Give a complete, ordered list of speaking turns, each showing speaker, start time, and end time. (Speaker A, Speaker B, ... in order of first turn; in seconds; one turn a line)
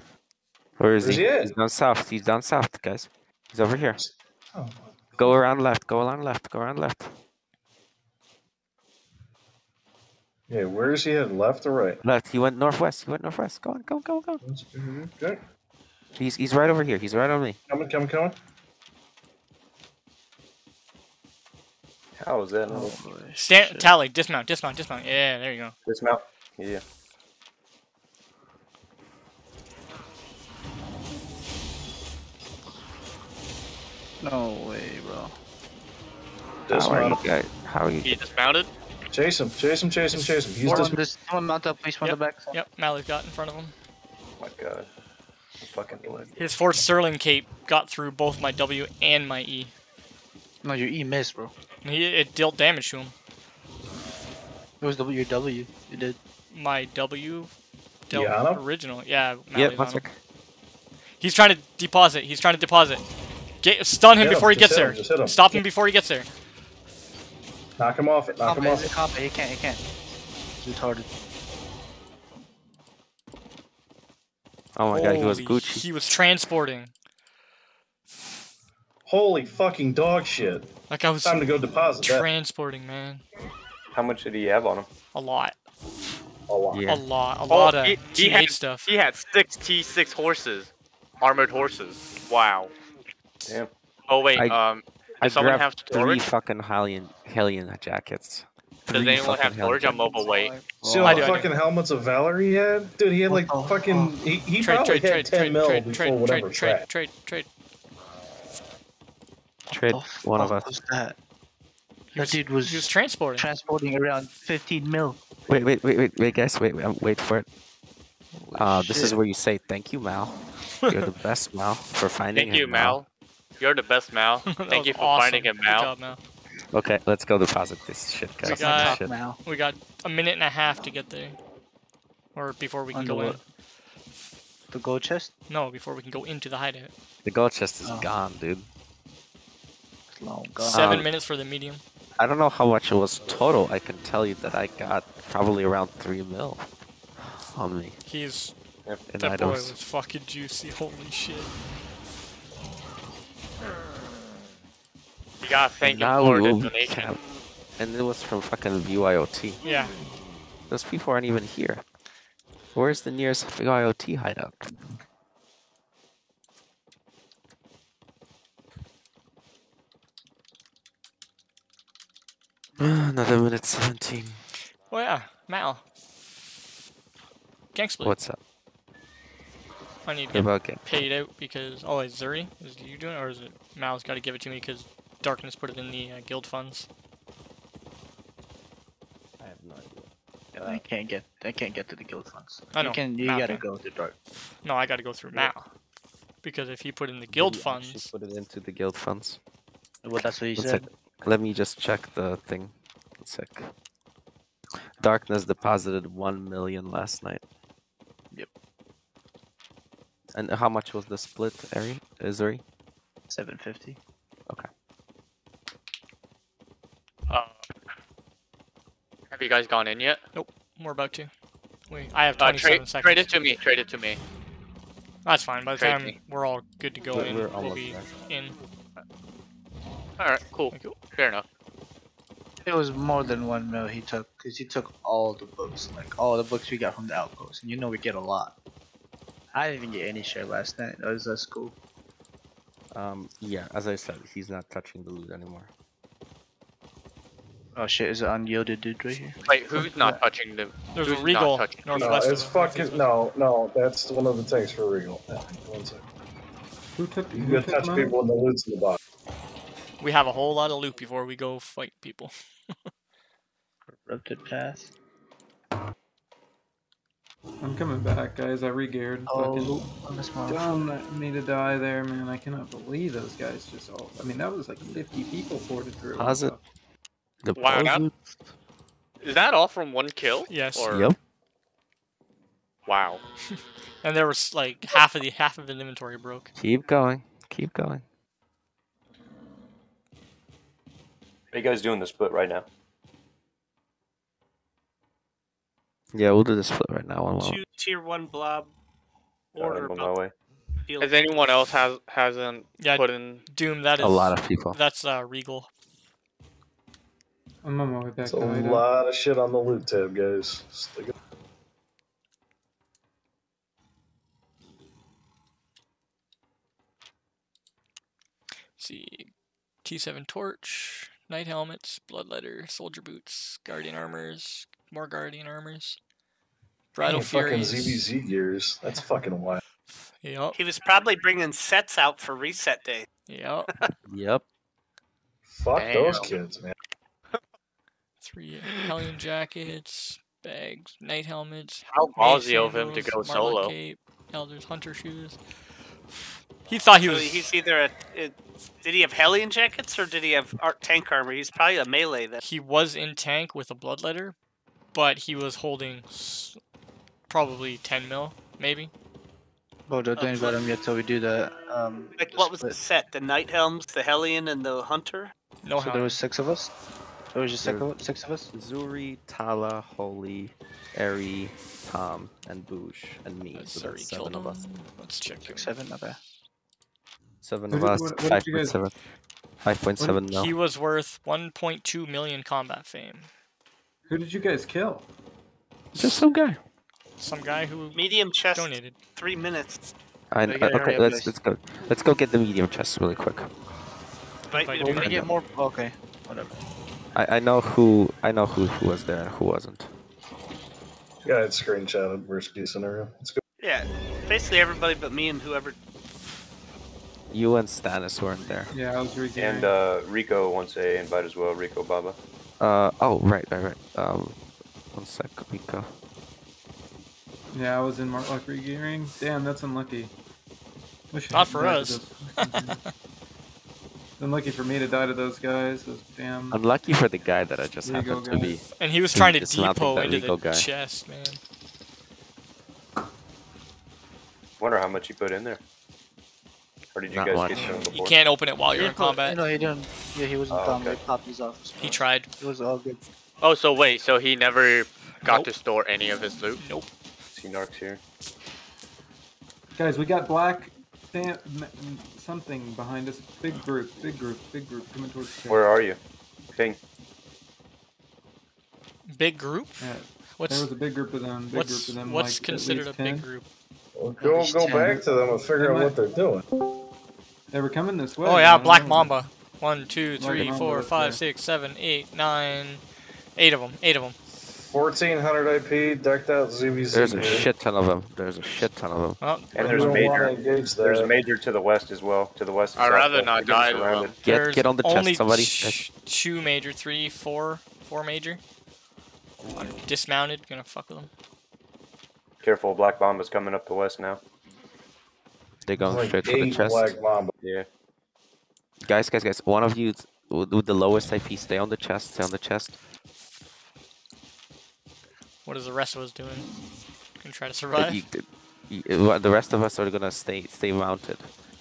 Speaker A: 0.8-4.0
Speaker B: 1.0-1.5
Speaker B: 4.0-4.7
Speaker A: 5.2-7.1
Speaker B: 10.5-12.0
Speaker A: 12.0-14.4
Speaker B: 14.4-15.4
Speaker A: 16.1-17.6
Speaker B: 17.7-18.4
Speaker C: 22.2-22.9
Speaker D: 22.7-23.9
Speaker E: 23.4-25.7
Speaker C: 26.1-26.8
Speaker D: 34.2-35.3
Speaker B: 36.7-37.2
Speaker A: 36.7-38.1
Speaker F: 38.0-38.7
Speaker B: 39.1-41.0
Speaker E: 40.1-40.8
Speaker D: 40.6-42.6
Speaker E: 42.0-43.7
Speaker C: 44.4-44.9
Speaker C: 45.6-46.3
Speaker E: 46.4-49.7
Speaker D: 50.6-51.5
Speaker E: 51.8-53.1
Speaker D: 54.8-56.2
Speaker E: 56.5-57.5
Speaker E: 58.1-60.0
Speaker B: 58.1-58.6
Speaker A: 59.5-60.1
Speaker E: 61.2-63.1
Speaker E: 63.6-66.3
Speaker B: 64.2-65.5
Speaker B: 67.8-68.9
Speaker D: 68.4-69.8
Speaker D: 70.6-71.1
Speaker A: 74.8-75.9
Speaker E: 74.9-76.9
Speaker B: 79.0-80.7
Speaker E: 80.9-83.2
Speaker B: 81.2-82.3
Speaker C: 84.0-84.9
Speaker E: 85.1-85.6
Speaker B: 86.5-86.8
Speaker A: 86.7-87.0
Speaker E: 86.8-88.9
Speaker F: 87.5-90.7
Speaker F: 91.2-92.7
Speaker F: 94.1-96.3
Speaker A: 95.2-100.2
Speaker F: 98.9-100.5
Speaker D: 99.8-101.1
Speaker B: 100.8-106.8
Speaker E: 101.0-101.5
Speaker A: 101.0-101.4
Speaker D: 103.3-104.2
Speaker E: 104.6-107.5
Speaker A: 109.7-110.8
Speaker D: 109.7-111.2
Speaker E: 112.1-113.5
Speaker D: 112.2-115.2
Speaker A: 115.5-117.5
Speaker D: 118.5-119.2
Speaker A: 118.5-123.0
Speaker F: 122.3-123.1
Speaker F: 123.6-125.9
Speaker E: 124.5-126.2
Speaker A: 126.7-129.1
Speaker E: 128.4-131.4
Speaker D: 128.4-129.4
Speaker E: 132.3-133.4
Speaker D: 132.9-133.4
Speaker D: 134.7-135.3
Speaker E: 135.5-136.9
Speaker A: 137.2-138.7
Speaker D: 137.8-138.1
Speaker D: 140.1-141.0
Speaker E: 140.6-141.8
Speaker A: 140.7-141.1
Speaker A: 142.2-146.7
Speaker A: 147.2-148.0
Speaker E: 148.0-148.5
Speaker A: 149.1-149.8
Speaker E: 149.1-151.5
Speaker F: 155.4-157.1
Speaker A: 155.8-157.2
Speaker A: 157.8-159.6
Speaker E: 159.6-160.0
Speaker A: 160.7-161.8
Speaker A: 162.7-164.7
Speaker A: 172.8-174.4
Speaker E: 174.9-175.8
Speaker E: 177.7-178.2
Speaker A: 178.0-178.4
Speaker E: 180.0-186.9
Speaker A: 180.3-181.0
Speaker A: 189.4-190.8
Speaker D: 190.5-194.2
Speaker E: 192.7-193.7
Speaker E: 194.6-195.7
Speaker E: 196.4-198.1
Speaker A: 197.3-199.4
Speaker D: 200.0-200.9
Speaker A: 200.5-203.7
Speaker A: 205.0-207.4
Speaker A: 210.3-212.6
Speaker D: 213.3-214.0
Speaker F: 217.3-217.6
Speaker F: 219.3-220.2
Speaker E: 220.3-221.3
Speaker E: 221.9-223.3
Speaker F: 222.4-224.2
Speaker E: 225.2-228.6
Speaker F: 225.8-226.1
Speaker A: 227.1-228.1
Speaker F: 230.2-231.4
Speaker E: 230.7-231.1
Speaker D: 232.6-238.5
Speaker D: 239.5-241.7
Speaker A: 242.9-245.7
Speaker D: 247.8-250.2
Speaker F: 249.5-252.1
Speaker E: 250.9-253.1
Speaker B: 251.9-256.0
Speaker G: 256.9-258.2
Speaker B: 257.3-259.0
Speaker E: 260.0-262.3
Speaker D: 264.0-264.9
Speaker G: 267.6-269.9
Speaker D: 269.3-270.8
Speaker G: 270.5-276.6
Speaker A: 276.1-276.6
Speaker A: 277.4-278.2
Speaker F: 277.6-278.0
Speaker F: 279.2-281.1
Speaker E: 280.5-281.0
Speaker A: 280.9-281.2
Speaker F: 282.9-283.2
Speaker E: 283.5-286.5
Speaker A: 286.6-288.0
Speaker C: 291.5-292.6
Speaker A: 296.1-297.6
Speaker H: 297.4-298.7
Speaker H: 299.5-300.2
Speaker C: 299.6-300.3
Speaker F: 299.7-300.1
Speaker H: 300.9-301.3
Speaker F: 301.0-303.4
Speaker E: 302.8-305.7
Speaker A: 304.0-304.8
Speaker G: 307.6-308.9
Speaker B: 308.2-311.1
Speaker E: 318.8-319.3
Speaker E: 319.8-326.0
Speaker E: 326.9-328.1
Speaker B: 327.0-329.6
Speaker E: 329.9-330.6
Speaker H: 330.5-333.1
Speaker E: 333.3-333.9
Speaker A: 334.1-334.4
Speaker B: 335.5-336.7
Speaker F: 335.7-336.4
Speaker E: 338.2-345.4
Speaker F: 341.9-343.7
Speaker E: 346.1-347.6
Speaker H: 347.0-352.4
Speaker E: 352.4-354.4
Speaker E: 354.9-356.6
Speaker E: 357.3-358.9
Speaker D: 359.9-362.8
Speaker F: 360.1-360.6
Speaker H: 362.1-365.3
Speaker E: 365.6-366.2
Speaker D: 365.8-366.7
Speaker D: 367.3-368.5
Speaker A: 367.6-367.9
Speaker A: 368.5-374.6
Speaker E: 373.5-376.2
Speaker D: 375.4-376.2
Speaker A: 377.4-378.9
Speaker G: 377.7-378.8
Speaker A: 379.6-380.5
Speaker G: 380.0-380.3
Speaker E: 380.3-383.3
Speaker G: 384.1-385.1
Speaker A: 385.9-386.6
Speaker E: 387.2-389.0
Speaker H: 387.9-389.8
Speaker A: 390.3-393.5
Speaker D: 390.5-391.3
Speaker H: 394.5-394.8
Speaker E: 394.5-395.2
Speaker D: 394.7-396.6
Speaker A: 394.9-395.3
Speaker A: 397.1-399.9
Speaker B: 401.2-403.4
Speaker H: 403.6-405.8
Speaker A: 407.3-408.7
Speaker G: 408.7-409.7
Speaker C: 409.4-412.1
Speaker A: 412.6-414.4
Speaker A: 414.9-415.9
Speaker G: 417.5-420.1
Speaker G: 421.1-422.8
Speaker E: 421.3-422.8
Speaker G: 424.2-426.6
Speaker A: 426.5-430.7
Speaker G: 427.8-428.6
Speaker E: 428.8-431.4
Speaker C: 434.6-435.6
Speaker C: 436.9-437.9
Speaker A: 437.1-437.8
Speaker H: 437.5-438.1
Speaker G: 437.5-437.9
Speaker E: 437.9-439.4
Speaker D: 438.7-443.0
Speaker C: 440.5-441.0
Speaker E: 441.8-442.3
Speaker F: 443.4-446.6
Speaker E: 445.2-445.5
Speaker E: 446.2-446.9
Speaker C: 447.3-448.0
Speaker G: 449.7-455.7
Speaker C: 455.5-456.0
Speaker E: 459.1-460.7
Speaker G: 459.8-463.3
Speaker E: 461.5-463.4
Speaker B: 463.9-466.4
Speaker D: 464.2-465.0
Speaker G: 465.5-465.9
Speaker G: 467.5-469.2
Speaker E: 468.2-472.8
Speaker G: 470.2-471.2
Speaker E: 473.4-474.1
Speaker B: 474.5-477.5
Speaker A: 476.9-479.2
Speaker E: 479.2-479.9
Speaker C: 479.6-480.2
Speaker B: 479.6-481.1
Speaker H: 479.8-480.9
Speaker C: 480.9-484.1
Speaker F: 482.8-484.1
Speaker E: 484.2-488.4
Speaker A: 484.2-485.8
Speaker E: 489.4-491.1
Speaker C: 492.4-494.2
Speaker A: 495.6-496.9
Speaker B: 495.8-497.3
Speaker C: 497.4-497.7
Speaker A: 498.8-502.8
Speaker E: 505.4-506.5
Speaker E: 507.2-508.0
Speaker A: 507.7-511.3